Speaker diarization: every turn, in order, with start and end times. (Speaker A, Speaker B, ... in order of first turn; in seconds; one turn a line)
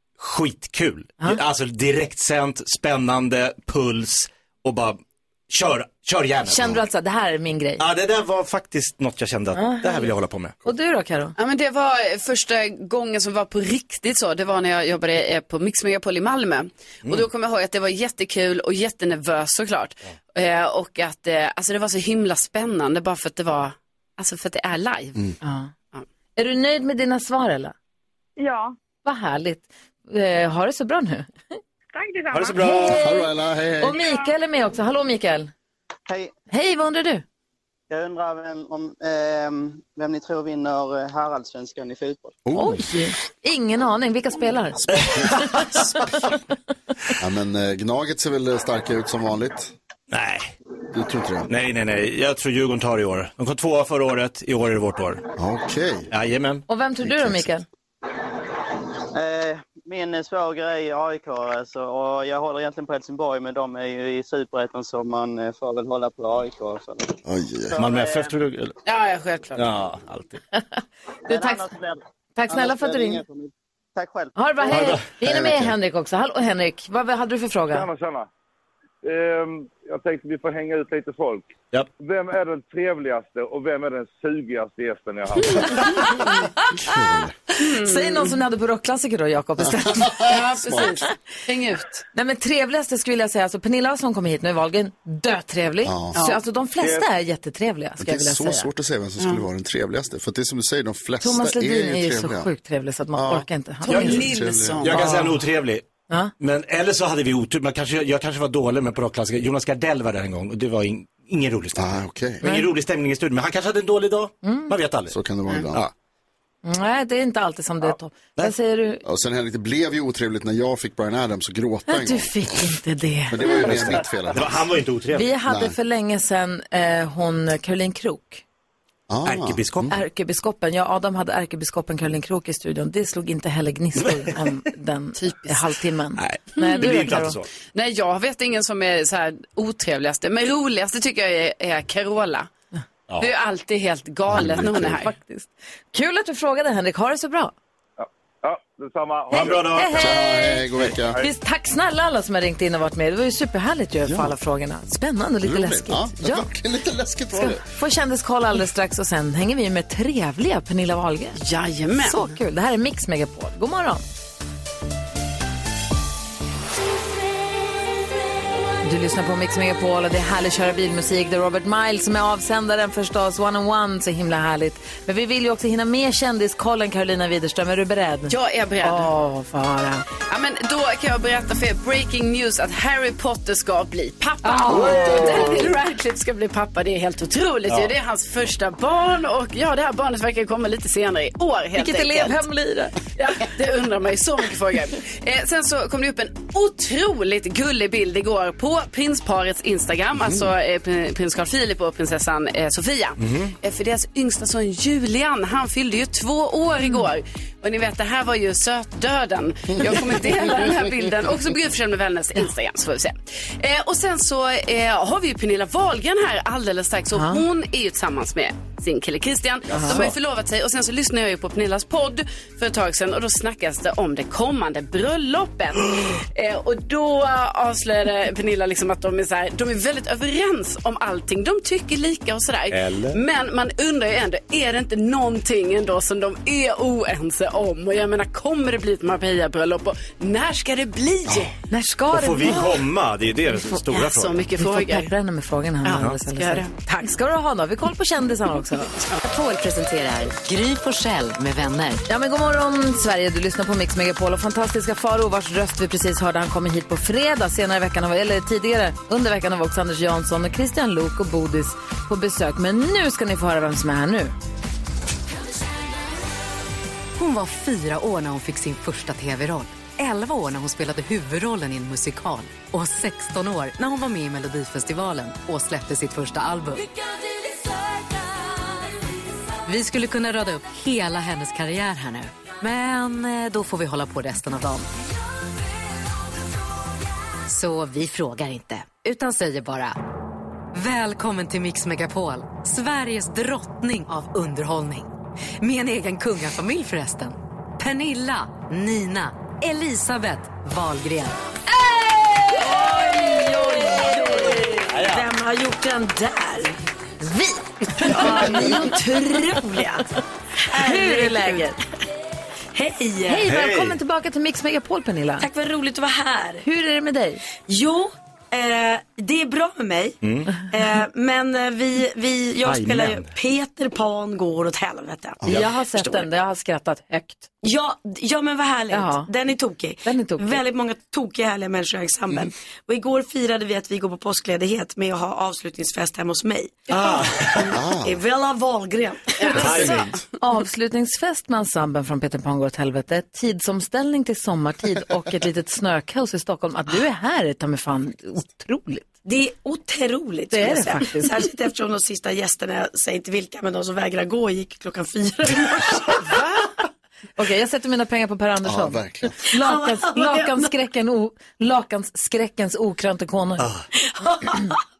Speaker A: 0.2-5.0
Speaker A: 5.5-6.8
Speaker B: 6.5-7.8
Speaker A: 7.8-10.5
Speaker B: 9.5-10.1
Speaker B: 10.6-11.3
Speaker C: 11.4-25.2
Speaker B: 25.4-25.7
Speaker B: 26.4-27.7
Speaker B: 29.0-31.3
Speaker A: 32.3-33.0
Speaker B: 32.6-35.5
Speaker D: 32.8-34.0
Speaker E: 36.1-36.3
Speaker B: 36.5-37.2
Speaker E: 37.9-42.4
Speaker D: 42.4-42.8
Speaker B: 42.5-45.7
Speaker D: 44.9-45.9
Speaker D: 47.2-49.7
Speaker A: 50.1-50.5
Speaker D: 50.9-51.5
Speaker A: 51.5-55.2
Speaker D: 55.4-56.1
Speaker A: 56.1-56.6
Speaker B: 56.7-57.6
Speaker D: 57.0-57.5
Speaker E: 59.1-67.2
Speaker D: 67.2-67.8
Speaker E: 67.7-68.3
Speaker A: 67.8-68.7
Speaker C: 68.8-69.6
Speaker A: 69.5-70.4
Speaker B: 70.8-71.7
Speaker E: 71.2-74.9
Speaker B: 72.3-73.2
Speaker B: 74.3-77.9
Speaker A: 74.7-75.0
Speaker D: 75.2-75.7
Speaker F: 77.7-78.3
Speaker F: 79.0-85.8
Speaker D: 86.8-87.3
Speaker C: 87.6-88.3
Speaker B: 87.7-90.8
Speaker D: 89.6-91.0
Speaker C: 90.2-92.0
Speaker B: 92.1-98.7
Speaker D: 95.8-96.2
Speaker C: 96.1-96.4
Speaker F: 96.8-97.0
Speaker D: 98.0-102.5
Speaker B: 101.2-104.3
Speaker D: 103.1-105.1
Speaker C: 103.8-105.2
Speaker A: 104.8-105.8
Speaker A: 106.4-115.1
Speaker D: 111.8-112.4
Speaker B: 112.4-112.7
Speaker B: 114.4-114.7
Speaker D: 115.1-115.8
Speaker B: 116.6-119.0
Speaker D: 119.0-122.8
Speaker B: 121.9-123.7
Speaker D: 123.3-124.6
Speaker A: 123.6-125.3
Speaker B: 125.1-128.4
Speaker D: 125.5-125.7
Speaker D: 129.1-129.9
Speaker A: 129.2-129.9
Speaker B: 129.9-137.4
Speaker C: 135.2-135.6
Speaker A: 136.2-137.5
Speaker C: 136.6-136.9
Speaker C: 137.7-142.5
Speaker C: 143.2-145.1
Speaker D: 144.3-145.0
Speaker B: 144.9-147.5
Speaker F: 148.0-149.7
Speaker A: 149.3-150.2
Speaker B: 149.3-156.5
Speaker D: 149.9-151.2
Speaker D: 154.0-154.3
Speaker D: 155.4-157.6
Speaker B: 157.3-161.4
Speaker C: 161.3-162.3
Speaker B: 162.0-164.0
Speaker B: 168.8-180.0
Speaker C: 178.3-179.1
Speaker C: 180.3-192.4
Speaker B: 184.4-185.6
Speaker D: 184.7-185.7
Speaker B: 191.8-192.9
Speaker C: 193.2-241.5
Speaker A: 203.2-203.5
Speaker B: 217.1-217.4
Speaker B: 219.7-220.1
Speaker A: 232.7-233.2
Speaker B: 241.7-242.6
Speaker A: 242.1-244.4
Speaker C: 243.9-245.1
Speaker B: 244.6-248.9
Speaker C: 245.8-246.7
Speaker G: 249.2-252.0
Speaker B: 252.1-264.3
Speaker G: 267.1-276.9
Speaker G: 279.6-284.9
Speaker G: 287.5-290.0
Speaker G: 290.7-301.4
Speaker B: 302.3-304.9
Speaker H: 302.5-306.8
Speaker A: 304.9-305.2
Speaker B: 307.2-309.6
Speaker H: 308.0-310.1
Speaker H: 310.7-311.7
Speaker B: 310.7-311.8
Speaker H: 312.7-313.5
Speaker B: 313.3-315.5
Speaker A: 313.4-314.0
Speaker H: 315.4-316.6
Speaker B: 316.6-317.4
Speaker H: 317.7-326.3
Speaker A: 320.2-320.5
Speaker A: 322.6-323.3
Speaker B: 325.4-327.5
Speaker H: 327.6-340.0
Speaker B: 328.9-329.3
Speaker B: 330.0-330.6
Speaker A: 336.9-337.8
Speaker D: 337.7-338.2
Speaker C: 339.4-339.9
Speaker A: 339.5-340.1
Speaker B: 340.4-349.1
Speaker H: 349.2-356.3
Speaker B: 350.5-351.4
Speaker B: 357.4-363.6
Speaker D: 358.6-359.3
Speaker H: 359.5-360.7
Speaker A: 363.6-363.8
Speaker H: 364.0-364.8